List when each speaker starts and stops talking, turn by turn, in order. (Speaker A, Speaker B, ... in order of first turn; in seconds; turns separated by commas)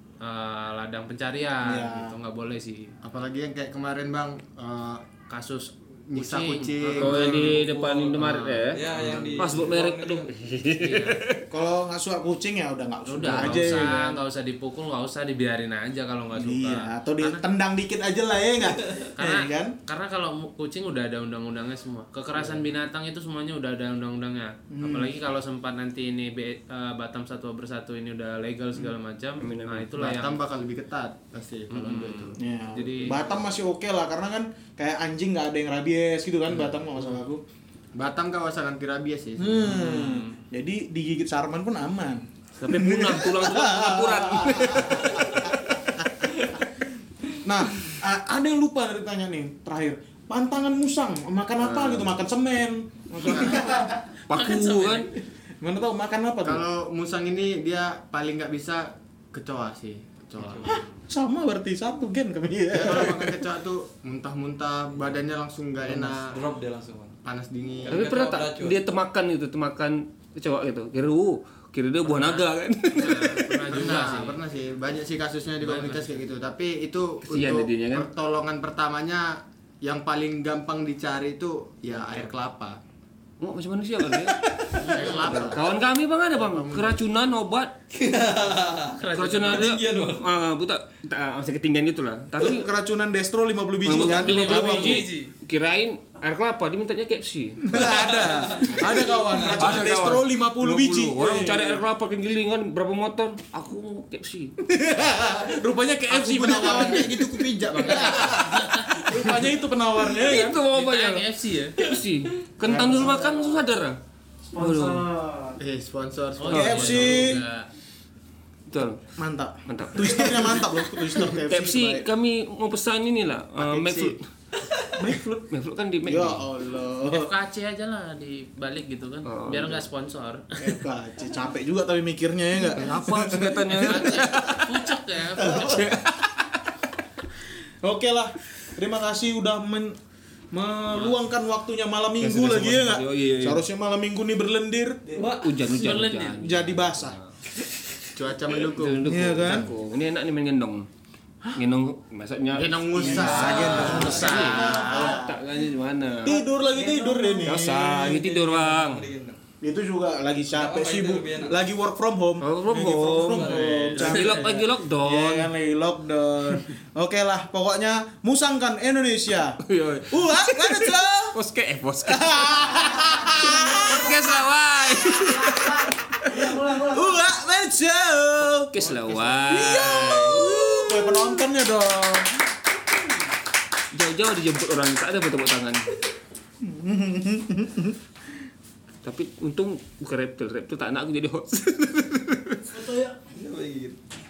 Speaker A: 0.2-2.9, Speaker B: 1.6-2.1, Speaker C: 3.0-5.0, Speaker A: 5.3-9.4, Speaker C: 6.1-7.5, Speaker D: 7.0-11.4, Speaker E: 7.4-10.3, Speaker C: 9.0-9.3, Speaker A: 10.8-11.2, Speaker B: 11.5-14.0, Speaker A: 13.1-17.4, Speaker D: 13.2-14.2, Speaker B: 16.3-19.8, Speaker A: 19.2-30.4, Speaker B: 24.7-25.1, Speaker D: 29.4-29.9, Speaker C: 30.0-32.4, Speaker A: 31.7-33.4, Speaker B: 32.4-37.4, Speaker C: 38.0-39.8, Speaker B: 39.4-45.5, Speaker A: 39.7-40.4, Speaker D: 42.6-45.8, Speaker B: 47.4-53.9, Speaker D: 51.6-52.2, Speaker C: 53.3-53.7, Speaker D: 54.3-55.1, Speaker A: 54.3-55.1, Speaker B: 55.6-56.7, Speaker C: 56.4-60.8, Speaker E: 60.4-60.9, Speaker B: 60.7-63.4, Speaker C: 62.7-66.4, Speaker E: 66.0-67.2, Speaker C: 67.2-68.1, Speaker E: 67.8-68.8, Speaker D: 67.9-73.6, Speaker A: 72.0-74.4, Speaker C: 73.7-82.8, Speaker A: 75.6-76.2, Speaker D: 77.3-78.1, Speaker D: 83.4-87.7, Speaker A: 84.7-85.4, Speaker C: 84.9-85.7, Speaker C: 86.3-87.0, Speaker E: 87.9-90.2, Speaker A: 89.0-89.8, Speaker D: 89.2-92.7, Speaker B: 92.4-95.0, Speaker D: 93.8-104.5, Speaker A: 93.9-95.3, Speaker B: 97.6-101.8, Speaker E: 97.7-99.9, Speaker B: 104.6-110.6, Speaker C: 106.1-108.5, Speaker A: 108.2-109.2, Speaker D: 110.1-114.0, Speaker A: 110.5-111.8, Speaker B: 112.6-113.4, Speaker C: 112.7-113.2, Speaker F: 114.5-115.6, Speaker D: 114.6-115.0, Speaker C: 115.6-117.3, Speaker A: 116.4-117.7, Speaker B: 116.5-117.4, Speaker D: 118.7-119.0, Speaker B: 119.2-122.1, Speaker D: 119.7-124.2, Speaker C: 123.6-124.2, Speaker B: 125.0-125.5, Speaker D: 125.5-126.5, Speaker B: 126.0-127.3, Speaker A: 127.1-130.5, Speaker D: 129.2-129.8, Speaker B: 130.6-134.6, Speaker D: 132.6-134.6, Speaker A: 133.8-135.9, Speaker B: 135.3-135.9, Speaker D: 135.7-136.6, Speaker B: 137.8-140.0, Speaker B: 140.5-145.3, Speaker D: 142.2-143.6, Speaker E: 145.2-145.5, Speaker D: 145.2-147.3, Speaker A: 145.7-146.4, Speaker B: 145.8-147.2, Speaker C: 148.2-149.7, Speaker D: 148.6-150.9, Speaker B: 149.0-149.7, Speaker D: 151.6-156.4, Speaker C: 152.6-155.2, Speaker B: 153.0-155.2, Speaker E: 153.2-154.3, Speaker A: 153.3-155.2, Speaker F: 154.8-155.3, Speaker B: 156.2-158.3, Speaker F: 156.3-157.7, Speaker D: 157.4-159.1, Speaker E: 158.0-159.4, Speaker B: 159.6-169.6, Speaker E: 160.5-161.7, Speaker D: 162.4-165.5, Speaker E: 163.2-164.7, Speaker A: 164.0-164.4, Speaker D: 169.7-172.6, Speaker B: 170.1-171.3, Speaker B: 172.1-174.2, Speaker F: 172.7-174.3, Speaker D: 173.9-175.7, Speaker B: 174.9-182.4, Speaker F: 175.4-177.2, Speaker D: 178.5-180.8, Speaker D: 183.9-185.8, Speaker B: 186.6-188.0, Speaker D: 189.0-192.6, Speaker F: 192.7-193.2, Speaker E: 193.3-194.0